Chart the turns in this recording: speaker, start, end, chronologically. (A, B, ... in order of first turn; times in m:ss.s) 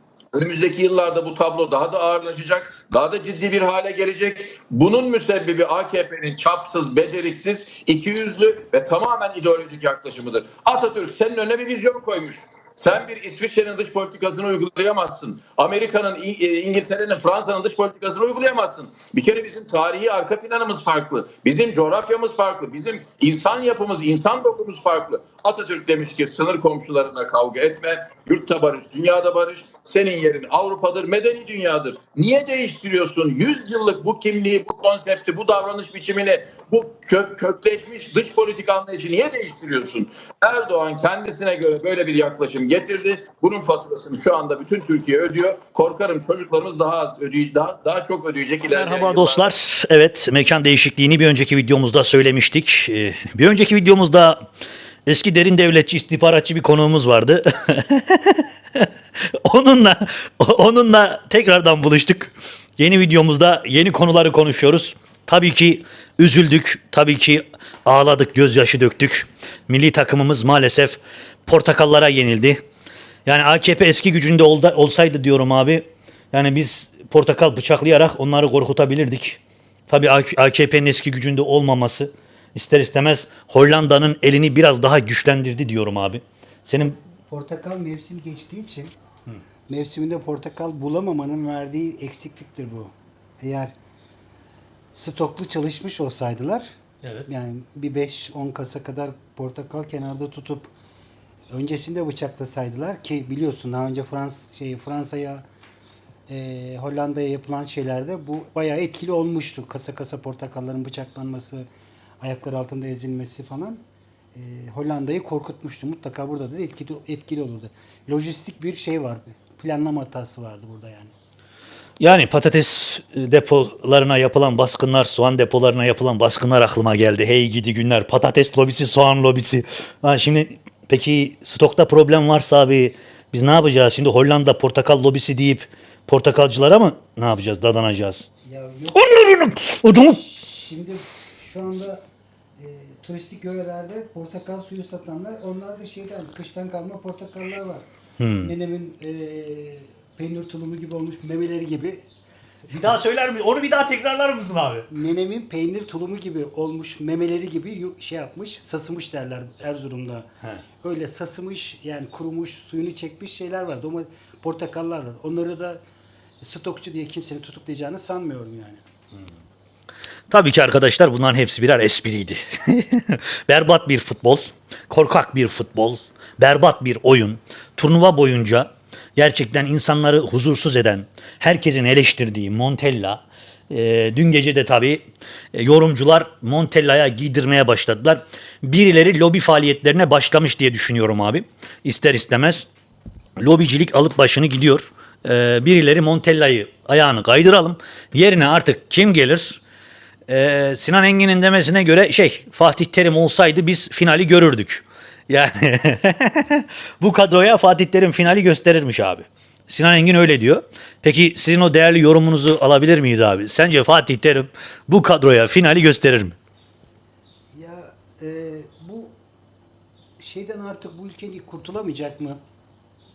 0:00.3-0:49.5 A
0:48.7-0:54.4 B
0:55.1-1:12.6 B
1:13.3-1:27.0 B
1:27.3-1:28.9 C
1:29.7-1:33.7 C
1:35.0-1:36.7 C
1:37.3-1:40.7 C
1:41.5-1:45.4 C
1:46.3-1:51.7 C
1:52.2-1:53.8 C
1:54.4-2:01.1 C
2:02.0-2:18.3 B
2:18.4-2:19.1 C
2:18.9-2:20.2 B
2:19.8-2:22.0 C
2:22.6-2:27.8 C
2:28.2-2:28.5 B
2:28.4-2:32.0 C
2:32.7-2:34.9 B
2:34.9-2:40.3 C
2:40.8-2:45.8 C
2:46.4-2:48.8 C
2:50.3-3:12.7 B
3:13.4-3:19.6 B
3:20.3-3:36.4 B
3:37.5-3:39.2 C
3:40.2-3:42.4 C